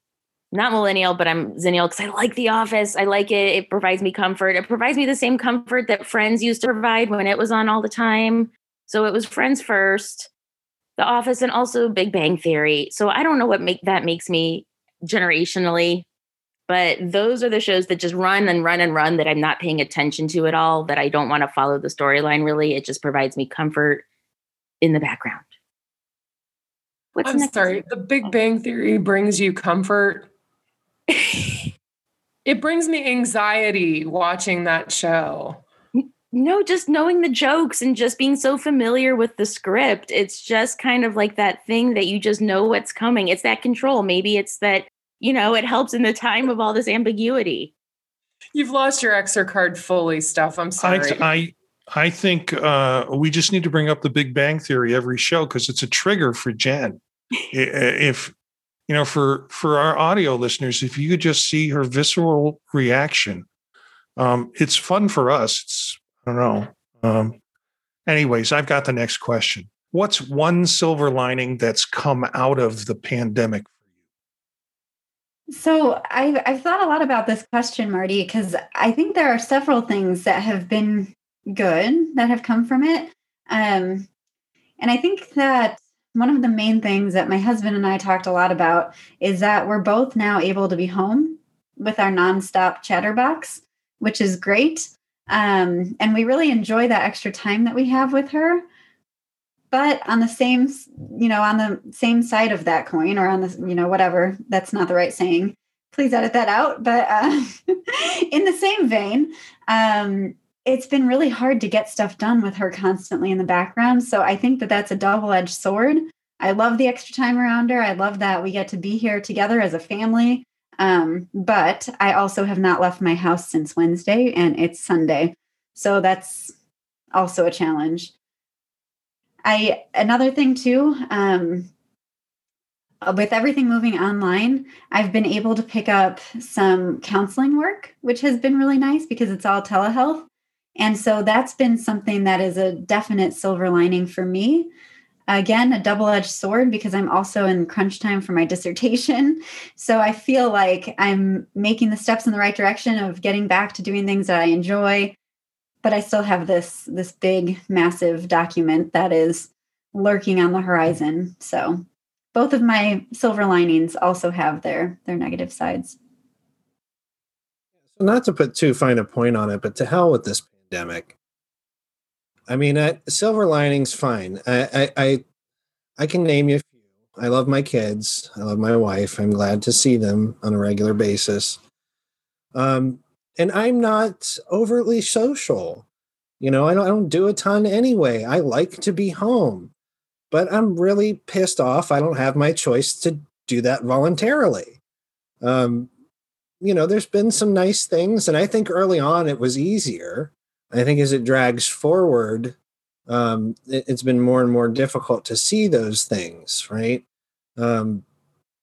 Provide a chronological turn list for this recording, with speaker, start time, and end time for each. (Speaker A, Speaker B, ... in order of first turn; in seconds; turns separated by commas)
Speaker A: 0.5-10.3, Speaker A: 11.0-16.1, Speaker A: 16.7-24.0, Speaker A: 24.8-25.5, Speaker A: 27.1-27.8, Speaker B: 27.2-30.3, Speaker A: 31.1-31.7, Speaker B: 32.5-35.6, Speaker A: 36.0-47.7, Speaker B: 48.5-51.2, Speaker C: 50.8-57.0, Speaker C: 57.5-58.3, Speaker C: 58.9-63.5, Speaker C: 64.2-67.4, Speaker C: 68.1-73.7, Speaker D: 75.5-84.1, Speaker D: 84.8-98.6, Speaker D: 99.7-126.5, Speaker D: 127.1-128.1, Speaker D: 129.4-131.7, Speaker D: 133.0-144.7, Speaker D: 145.3-155.2, Speaker D: 155.8-161.8, Speaker D: 162.3-166.0, Speaker E: 167.9-171.1, Speaker E: 172.5-175.2, Speaker E: 176.0-181.6, Speaker E: 182.5-185.8, Speaker E: 186.4-189.7, Speaker E: 190.3-194.8, Speaker E: 195.4-195.9, Speaker E: 196.6-202.6, Speaker E: 203.1-207.0, Speaker E: 207.6-208.0